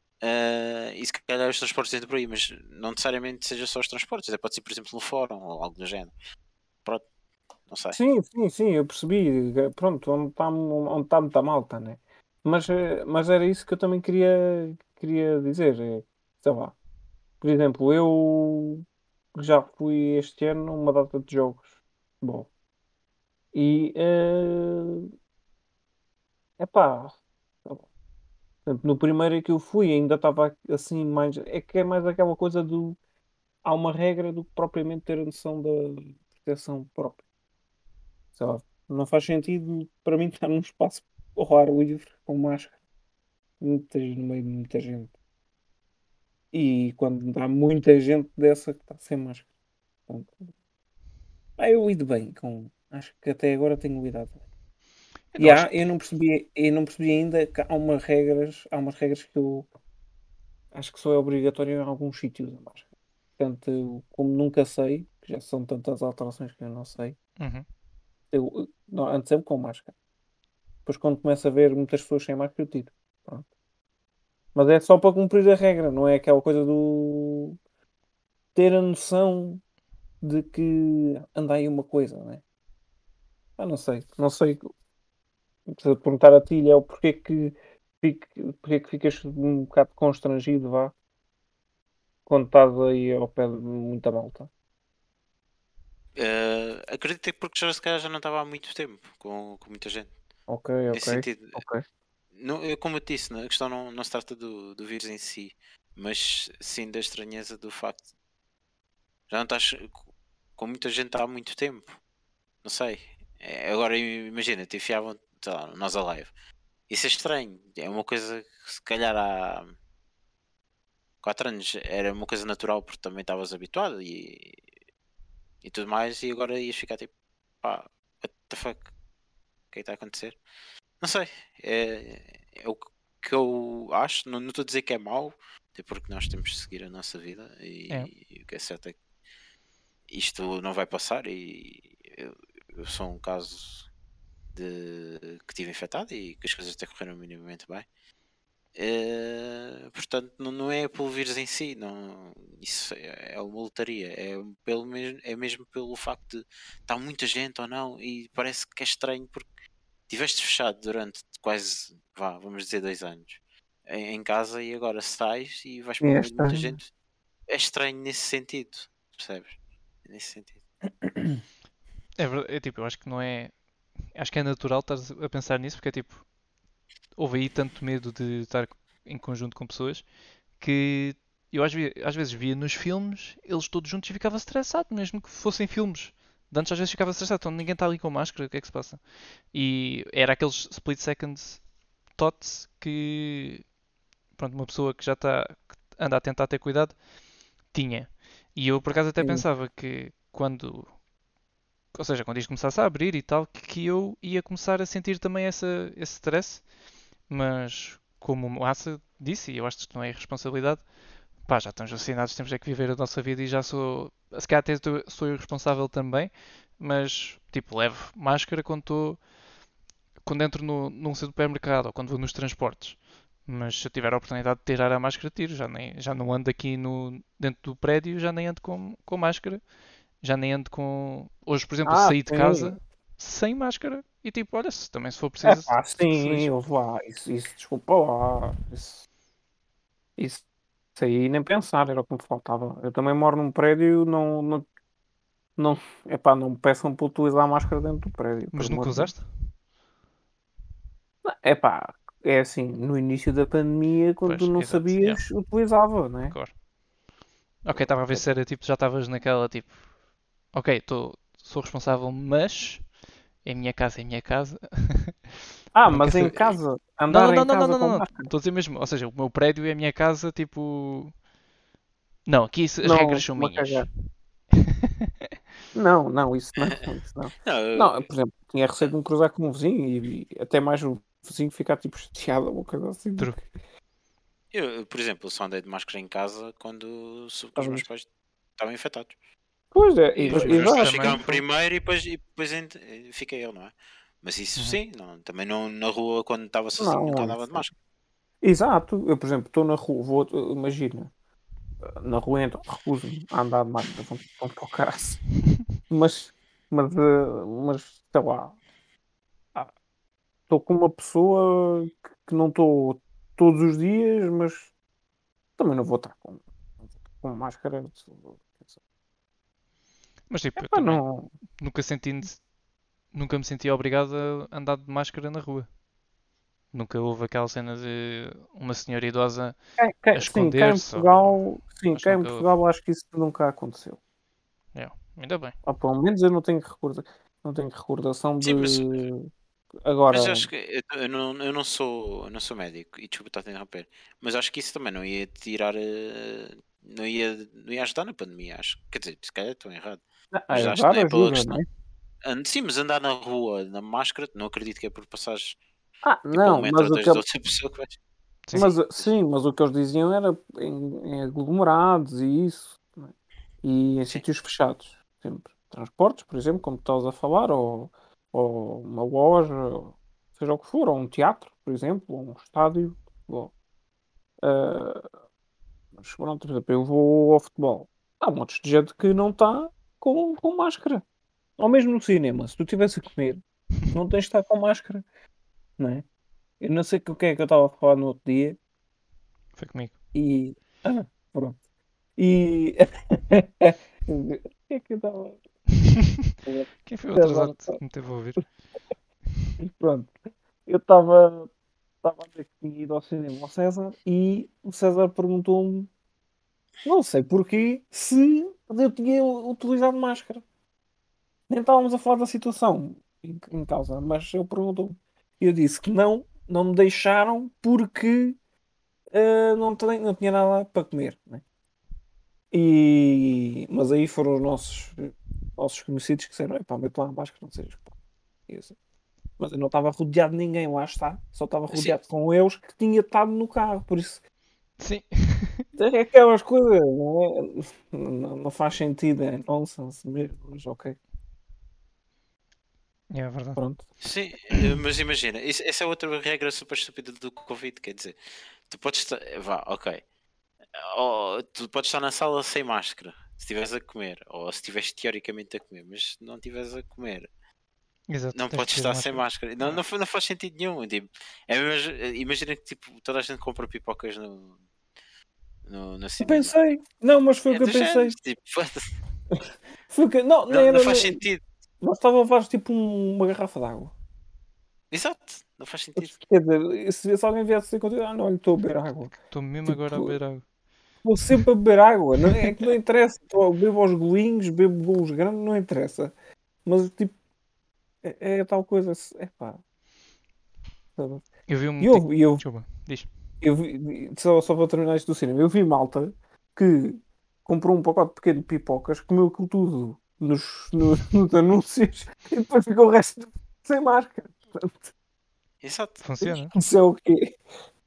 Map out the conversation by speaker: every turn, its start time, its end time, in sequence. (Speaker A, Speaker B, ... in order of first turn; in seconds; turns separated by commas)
Speaker A: 0.2-6.1, Speaker A: 7.7-8.0, Speaker B: 7.9-16.8, Speaker B: 17.4-22.5, Speaker B: 23.5-25.1, Speaker B: 26.6-27.9, Speaker B: 28.6-33.0, Speaker B: 33.6-37.2, Speaker B: 38.4-42.8, Speaker B: 43.6-45.1, Speaker B: 46.5-49.5, Speaker B: 50.1-50.5, Speaker B: 51.6-54.4, Speaker C: 55.3-55.7, Speaker B: 55.4-59.7, Speaker B: 60.7-62.8, Speaker B: 63.4-67.2, Speaker C: 67.4-67.6, Speaker B: 68.3-69.9, Speaker B: 70.8-73.5, Speaker B: 74.5-77.6, Speaker B: 78.5-79.6, Speaker B: 80.2-82.4, Speaker B: 83.6-84.7, Speaker B: 85.7-90.9, Speaker B: 92.2-94.5, Speaker A: 96.2-100.1, Speaker B: 100.5-101.8, Speaker A: 100.9-101.6, Speaker A: 102.3-108.0, Speaker A: 109.3-110.0, Speaker A: 110.6-112.0, Speaker A: 112.6-116.3, Speaker A: 116.9-119.7, Speaker A: 121.2-124.6, Speaker A: 125.6-128.9, Speaker A: 129.7-130.4, Speaker A: 131.0-138.9, Speaker A: 140.1-143.9, Speaker A: 144.5-147.8, Speaker A: 148.7-159.5, Speaker A: 160.1-166.9, Speaker B: 166.0-166.8, Speaker A: 167.5-170.6, Speaker B: 171.1-171.4, Speaker C: 172.2-173.5, Speaker C: 174.1-176.2, Speaker C: 177.2-180.1, Speaker C: 180.6-193.7, Speaker C: 194.3-197.0, Speaker C: 197.7-200.9, Speaker B: 199.2-199.4, Speaker C: 201.9-206.7, Speaker C: 207.2-219.2, Speaker C: 220.2-229.6, Speaker C: 230.2-236.5, Speaker B: 231.8-232.7, Speaker B: 235.4-239.0, Speaker B: 240.2-244.7, Speaker B: 245.6-249.1, Speaker C: 248.5-249.3, Speaker B: 251.2-256.4, Speaker C: 254.2-255.2, Speaker C: 256.3-256.5, Speaker C: 257.6-259.8, Speaker B: 257.8-258.2, Speaker C: 260.5-265.4, Speaker B: 265.7-268.3, Speaker C: 265.9-271.2, Speaker C: 272.2-273.9, Speaker B: 272.8-273.9, Speaker B: 275.7-283.5, Speaker A: 277.4-278.1, Speaker A: 284.5-288.1, Speaker B: 287.6-287.9, Speaker A: 288.6-289.1, Speaker B: 289.7-291.2, Speaker C: 290.1-291.4, Speaker A: 290.3-297.7, Speaker B: 296.8-297.7, Speaker B: 298.4-301.1, Speaker B: 301.8-305.2, Speaker B: 305.9-308.6, Speaker B: 310.5-314.7, Speaker B: 315.6-318.8, Speaker C: 320.3-321.0, Speaker B: 320.6-321.3, Speaker C: 321.6-322.4, Speaker C: 323.1-325.7, Speaker C: 326.7-329.6, Speaker B: 329.8-334.0, Speaker C: 330.1-332.5, Speaker C: 334.7-335.5, Speaker B: 335.6-339.3, Speaker A: 338.4-339.0, Speaker B: 339.8-340.5, Speaker A: 340.1-351.6, Speaker B: 350.3-351.6, Speaker A: 352.2-355.6, Speaker B: 356.0-357.2, Speaker A: 356.3-358.0, Speaker B: 358.5-373.5, Speaker A: 358.6-359.1, Speaker B: 374.4-375.1, Speaker B: 375.9-381.0, Speaker B: 381.6-385.0, Speaker B: 385.8-386.1, Speaker B: 386.6-388.6, Speaker C: 389.6-389.9, Speaker B: 390.1-391.6, Speaker B: 392.2-395.4, Speaker B: 396.4-397.8, Speaker C: 396.9-398.4, Speaker B: 399.6-400.1, Speaker B: 400.6-401.5, Speaker B: 402.0-405.9, Speaker B: 406.8-410.4, Speaker B: 411.5-418.4, Speaker B: 419.1-421.4, Speaker B: 422.5-427.9, Speaker B: 428.5-428.7, Speaker B: 429.4-434.2, Speaker A: 431.7-432.0, Speaker C: 434.8-435.7, Speaker B: 435.8-441.0, Speaker C: 443.1-443.6, Speaker B: 443.6-443.9, Speaker A: 444.0-448.1, Speaker A: 448.7-450.0, Speaker A: 450.8-457.3, Speaker C: 458.1-459.8, Speaker A: 458.3-464.6, Speaker A: 465.6-466.6, Speaker B: 466.2-468.1, Speaker A: 467.5-468.9, Speaker B: 469.3-471.2, Speaker A: 470.5-471.4, Speaker B: 471.8-473.9, Speaker A: 474.9-476.1, Speaker B: 475.9-480.2, Speaker C: 479.1-480.4, Speaker B: 481.0-486.1, Speaker B: 486.6-487.1, Speaker B: 488.0-489.6, Speaker B: 491.0-491.3, Speaker C: 491.5-493.1, Speaker B: 491.8-492.4, Speaker B: 493.4-504.9, Speaker A: 505.6-506.1, Speaker C: 506.0-506.5, Speaker B: 506.5-507.3